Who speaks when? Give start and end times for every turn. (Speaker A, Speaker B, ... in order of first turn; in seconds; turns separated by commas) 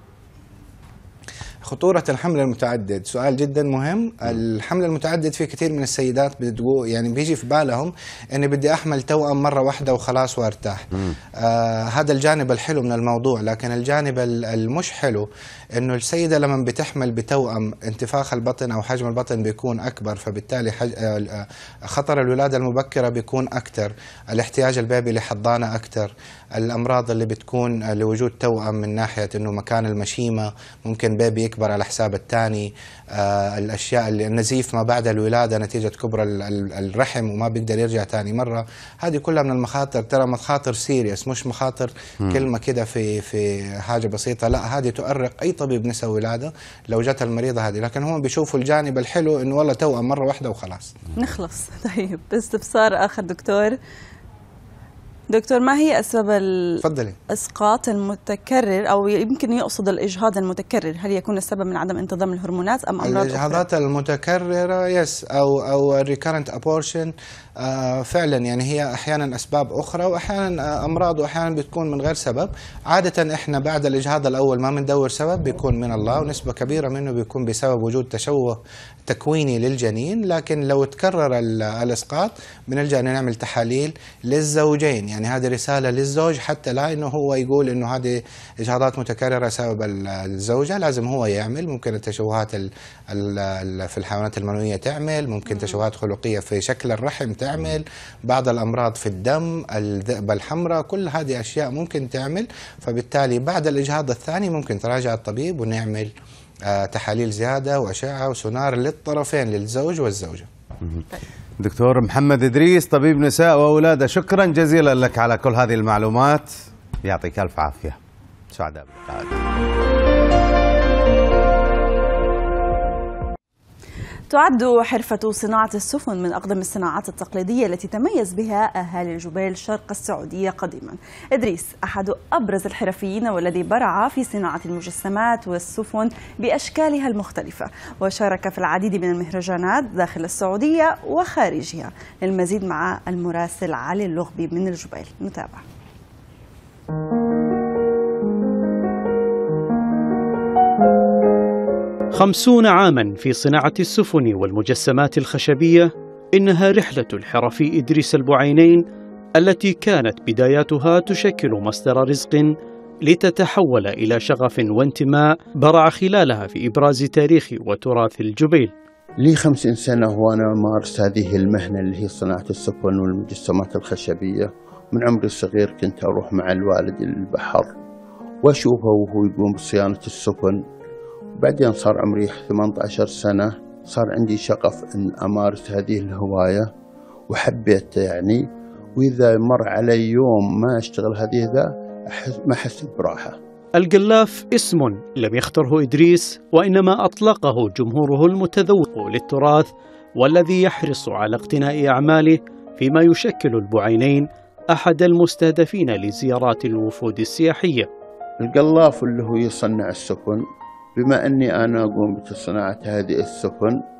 Speaker A: 1.6-10.9, Speaker A: 11.4-51.0, Speaker B: 51.2-53.8, Speaker B: 55.3-63.6, Speaker A: 56.8-57.2, Speaker A: 63.0-106.1, Speaker B: 95.5-95.8, Speaker A: 106.7-110.5, Speaker C: 111.6-118.0, Speaker C: 118.5-119.4, Speaker B: 124.3-145.6, Speaker D: 152.1-158.8, Speaker D: 159.4-162.5, Speaker D: 163.0-168.7, Speaker E: 169.2-177.7, Speaker E: 178.4-180.6, Speaker E: 181.4-186.7, Speaker E: 187.3-193.4, Speaker D: 193.8-207.9, Speaker E: 208.4-210.4, Speaker E: 211.0-213.8